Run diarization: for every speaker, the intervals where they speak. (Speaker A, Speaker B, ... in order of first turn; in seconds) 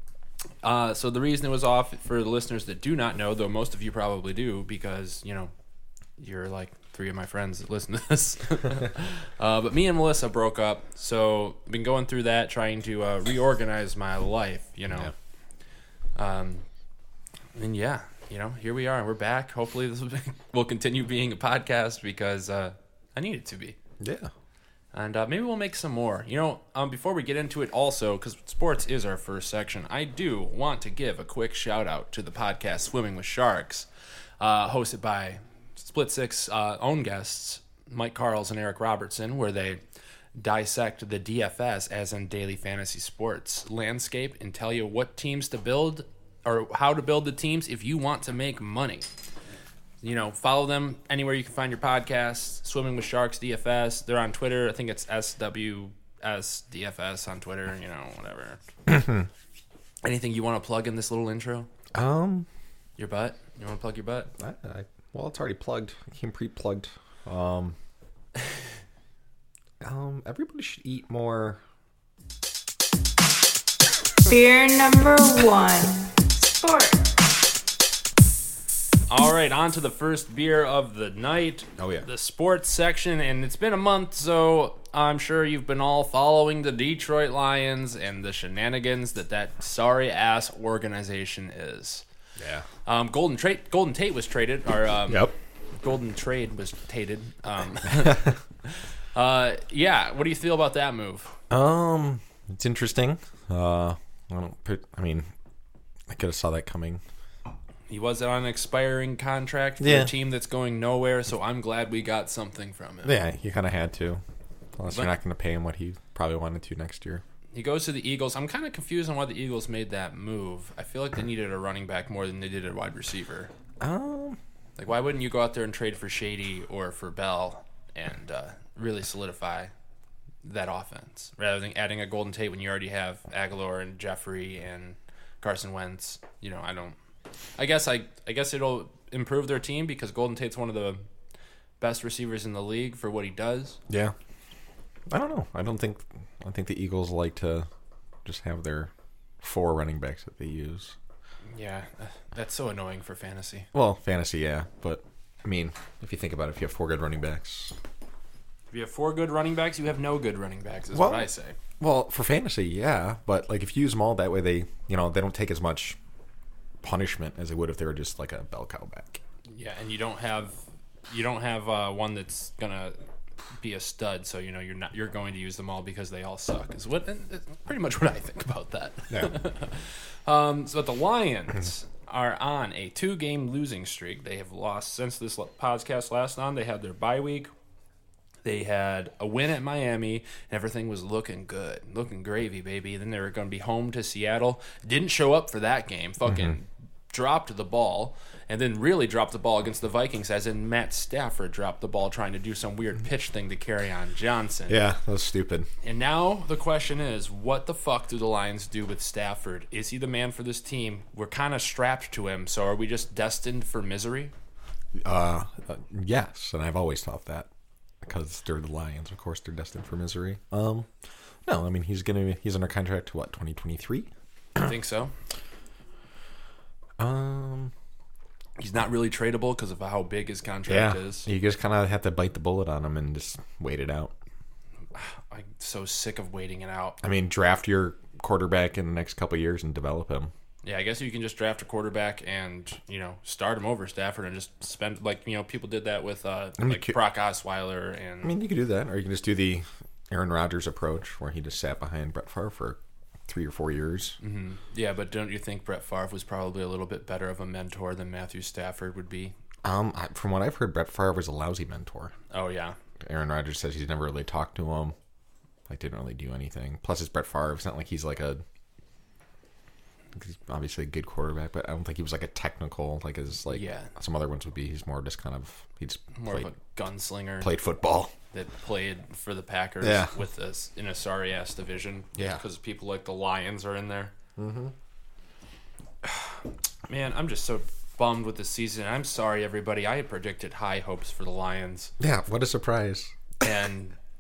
Speaker A: 0.6-5.5, 6.2-15.1, 16.1-16.7, 17.6-23.8, 24.9-33.9, 34.4-39.8, 40.4-49.1, 50.0-58.6, 60.0-61.7, 63.0-64.3, 79.1-92.0, 92.8-101.4, 107.9-113.2, 117.5-123.5, 124.8-129.7, 130.4-137.0, 137.6-141.1, 141.8-143.8, 151.5-153.7, 158.7-161.6, 169.5-170.6, 171.1-173.0, 173.6-187.5, 188.4-204.8, 205.8-214.3, 224.6-225.1, 228.6-231.3, 234.9-237.0, 240.6-248.4, 254.2-259.4, 262.3-262.8, 273.5-273.9, 276.1-277.6, 278.3-284.1, 286.9-291.9, 293.4-294.0
Speaker B: 24.0-24.3, 58.9-59.3, 62.0-62.5, 64.4-67.8, 69.8-71.6, 81.8-82.1, 92.4-92.7, 95.1-95.4, 101.5-105.3, 106.1-107.0, 109.8-110.1, 113.0-114.2, 114.8-117.2, 123.8-124.4, 143.9-144.2, 145.1-147.7, 148.2-151.0, 153.7-157.8, 160.9-166.0, 166.8-169.2, 196.3-196.6, 204.7-205.7, 215.0-217.5, 218.0-220.9, 221.4-224.1, 227.0-227.7, 230.7-234.2, 237.0-240.3, 246.6-246.9, 248.2-254.2, 259.6-262.1, 263.0-264.9, 265.7-268.4, 270.1-276.5, 277.4-278.1, 279.8-280.1, 282.2-282.4, 284.4-284.7, 292.0-293.2
Speaker C: 74.2-77.1